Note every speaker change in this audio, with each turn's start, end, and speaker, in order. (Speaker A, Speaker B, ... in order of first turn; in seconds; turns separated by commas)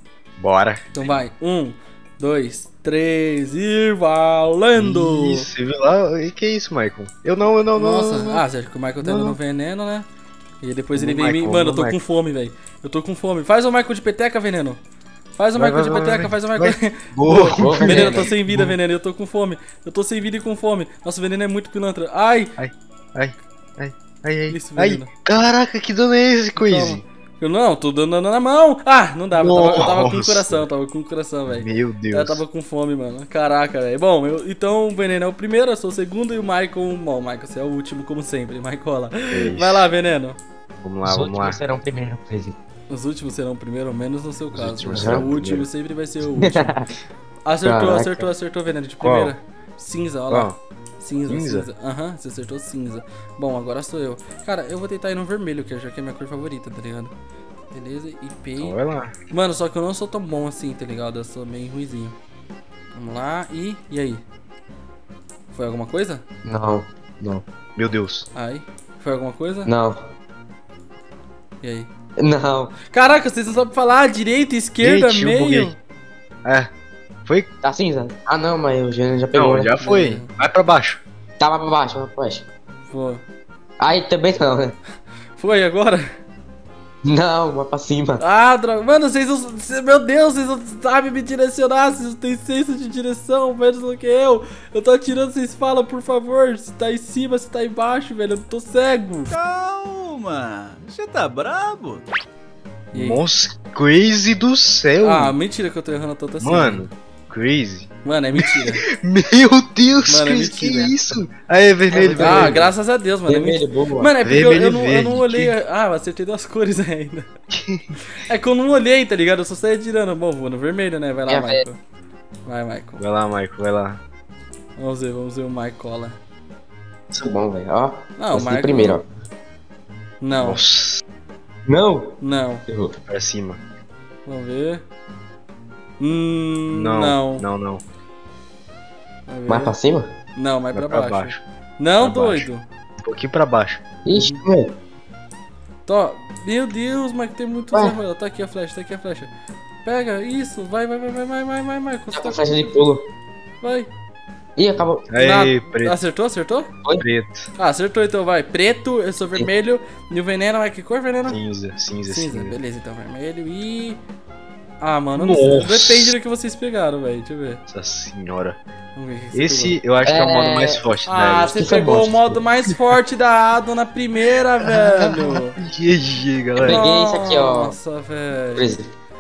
Speaker A: 0.4-0.9, Speaker B: 0.9-5.5, Speaker A: 4.8-8.4, Speaker B: 7.8-10.1, Speaker A: 9.0-9.4, Speaker B: 10.6-14.8, Speaker A: 10.9-12.0, Speaker B: 15.4-22.5, Speaker A: 15.6-18.8, Speaker C: 17.5-18.3, Speaker A: 22.6-27.0, Speaker B: 24.5-25.1, Speaker B: 26.6-40.4, Speaker A: 29.3-30.7, Speaker A: 31.5-32.4, Speaker A: 39.3-39.9, Speaker A: 40.8-41.6, Speaker C: 41.0-42.6, Speaker B: 42.9-46.8, Speaker A: 44.5-45.7, Speaker C: 44.9-45.3, Speaker C: 46.4-46.9, Speaker B: 47.5-57.1, Speaker C: 47.6-48.3, Speaker A: 49.0-49.3, Speaker A: 50.3-50.6, Speaker A: 51.3-51.7, Speaker B: 57.7-58.8, Speaker A: 58.6-59.1, Speaker B: 59.3-62.2, Speaker B: 62.9-64.2, Speaker B: 65.5-66.2, Speaker C: 66.5-67.5, Speaker A: 67.8-68.3, Speaker B: 68.3-69.7, Speaker C: 69.7-70.0, Speaker B: 71.6-71.9, Speaker C: 72.2-72.8, Speaker B: 72.9-75.8, Speaker A: 74.8-75.7, Speaker A: 76.5-76.7, Speaker C: 77.6-79.7, Speaker A: 79.3-81.0, Speaker B: 79.8-80.3, Speaker C: 81.4-82.5, Speaker B: 82.9-83.2, Speaker C: 83.8-84.8, Speaker B: 85.4-86.0, Speaker C: 87.0-88.2, Speaker B: 88.2-99.3, Speaker D: 99.3-102.1, Speaker B: 102.9-103.2, Speaker A: 102.9-105.3, Speaker B: 105.0-106.9, Speaker A: 106.4-112.7, Speaker B: 108.0-108.8, Speaker B: 110.1-111.0, Speaker C: 111.9-112.6, Speaker B: 112.2-117.3, Speaker C: 113.3-114.2, Speaker A: 114.2-115.5, Speaker A: 117.5-117.9, Speaker B: 118.1-121.8, Speaker C: 121.3-121.6, Speaker B: 122.5-123.0, Speaker A: 123.0-124.0, Speaker B: 124.8-126.2, Speaker C: 127.1-129.1, Speaker B: 128.2-129.0, Speaker B: 130.2-130.6, Speaker A: 130.4-131.0, Speaker C: 131.7-133.0, Speaker B: 132.2-132.6, Speaker A: 133.1-133.6, Speaker B: 134.3-134.8, Speaker B: 136.0-137.5, Speaker A: 136.7-137.8, Speaker B: 139.3-139.8, Speaker C: 139.5-140.1, Speaker B: 140.4-142.6, Speaker A: 140.7-141.4, Speaker A: 142.0-142.5, Speaker A: 143.0-143.8, Speaker C: 144.1-144.8, Speaker B: 144.1-144.4, Speaker B: 145.9-149.3, Speaker B: 149.8-152.8, Speaker C: 152.1-153.0, Speaker B: 153.6-153.9, Speaker C: 154.6-155.1, Speaker A: 155.1-156.0, Speaker B: 155.2-156.7, Speaker A: 157.0-157.5, Speaker B: 157.6-161.4, Speaker A: 161.3-162.6, Speaker B: 162.1-164.0, Speaker B: 164.8-167.6, Speaker A: 165.2-166.1, Speaker A: 167.7-168.6, Speaker B: 168.9-169.8, Speaker A: 169.3-171.6, Speaker C: 170.0-170.9, Speaker B: 171.1-175.6, Speaker C: 171.5-172.4, Speaker A: 174.7-176.8, Speaker C: 176.6-177.8, Speaker B: 176.6-178.7, Speaker C: 178.6-178.9